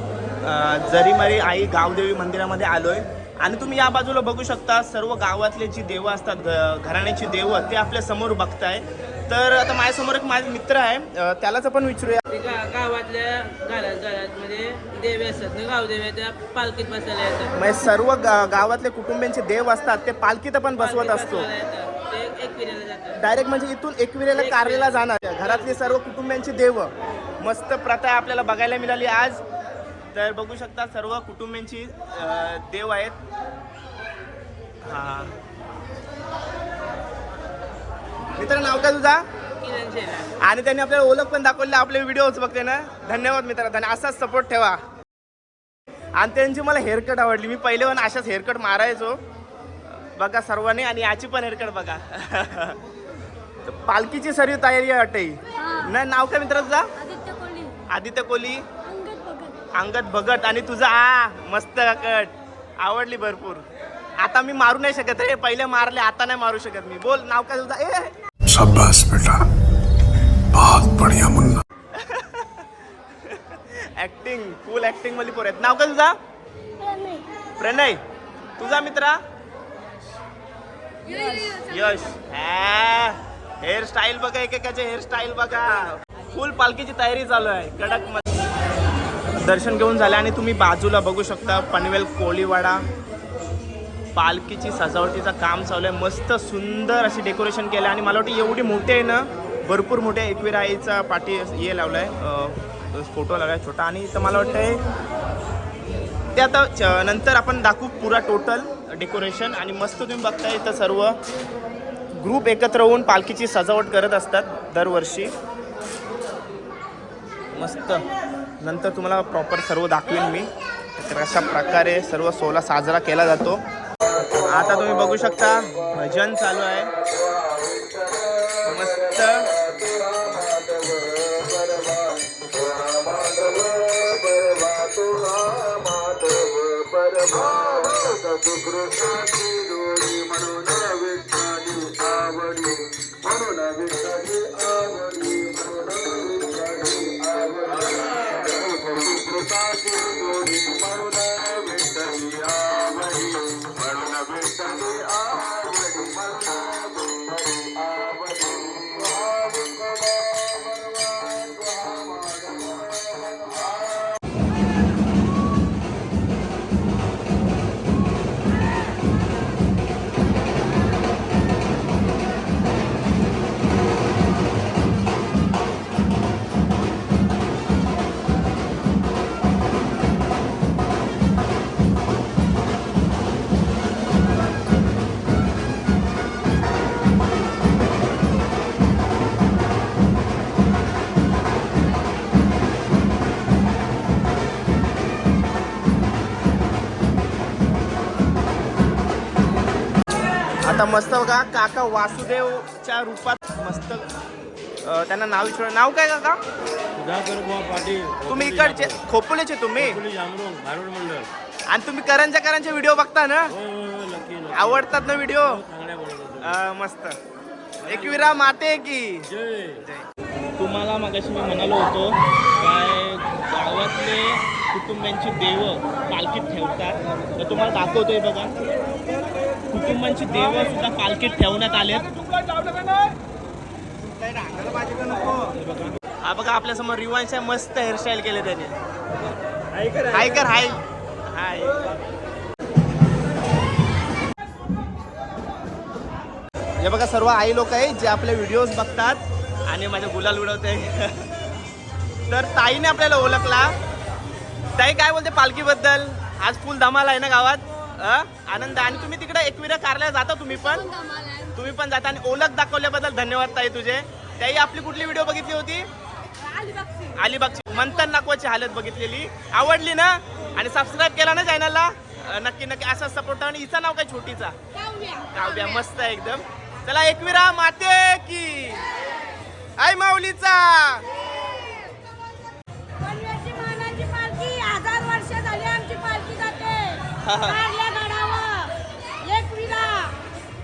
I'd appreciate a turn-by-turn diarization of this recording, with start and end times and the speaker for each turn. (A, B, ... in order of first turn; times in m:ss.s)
0:00.4-0:12.2 A
0:12.3-0:17.5 B
0:17.6-0:21.5 A
0:20.8-0:23.2 B
0:23.2-0:26.9 A
0:24.4-0:25.0 B
0:27.4-0:29.4 A
0:30.1-0:33.2 A
0:34.9-0:35.3 A
0:38.4-0:39.2 A
0:39.6-0:40.3 B
0:40.4-0:44.8 A
0:46.2-0:49.2 A
0:50.2-0:52.8 A
0:53.7-0:56.9 A
0:57.0-0:57.8 C
0:57.9-0:58.6 A
0:58.9-0:59.6 C
0:59.7-1:03.6 A
1:04.2-1:08.1 A
1:08.5-1:09.5 D
1:10.5-1:11.6 D
1:11.9-1:12.6 A
1:13.3-1:16.2 A
1:16.9-1:17.2 C
1:17.6-1:18.0 A
1:18.6-1:19.2 A
1:21.1-1:21.5 C
1:21.3-1:28.3 A
1:29.4-1:32.8 A
1:34.2-1:44.8 A
1:46.4-1:51.2 A
1:52.2-1:55.3 A
1:57.6-1:58.0 A
1:58.6-2:03.6 A
2:04.4-2:06.9 A
2:08.5-2:09.5 A
2:17.0-2:17.3 E
2:18.1-2:21.3 E
2:29.7-2:30.7 E
2:31.4-2:32.8 E
2:34.1-2:34.9 E
3:20.6-3:24.1 A
3:24.8-3:26.4 A
3:27.0-3:28.2 E
3:28.2-3:30.0 A
3:30.2-3:31.3 E
3:31.7-3:33.5 A
3:34.0-3:34.4 E
3:34.5-3:35.6 A
3:35.8-3:36.2 E
3:36.3-3:37.2 A
3:37.8-3:40.1 A
3:40.6-3:48.8 A
3:49.7-3:52.1 A
3:54.2-3:55.6 A
3:56.2-3:58.8 A
4:00.0-4:01.9 A
4:06.8-4:11.3 A
4:12.3-4:13.8 A
4:14.8-4:21.0 A
4:20.9-4:21.5 C
4:21.5-4:25.9 A
4:26.4-4:27.1 C
4:27.2-4:34.6 A
4:34.8-4:35.4 C
4:35.3-4:38.9 A
4:39.8-4:41.0 A
4:43.0-4:50.2 C
4:47.2-4:47.6 A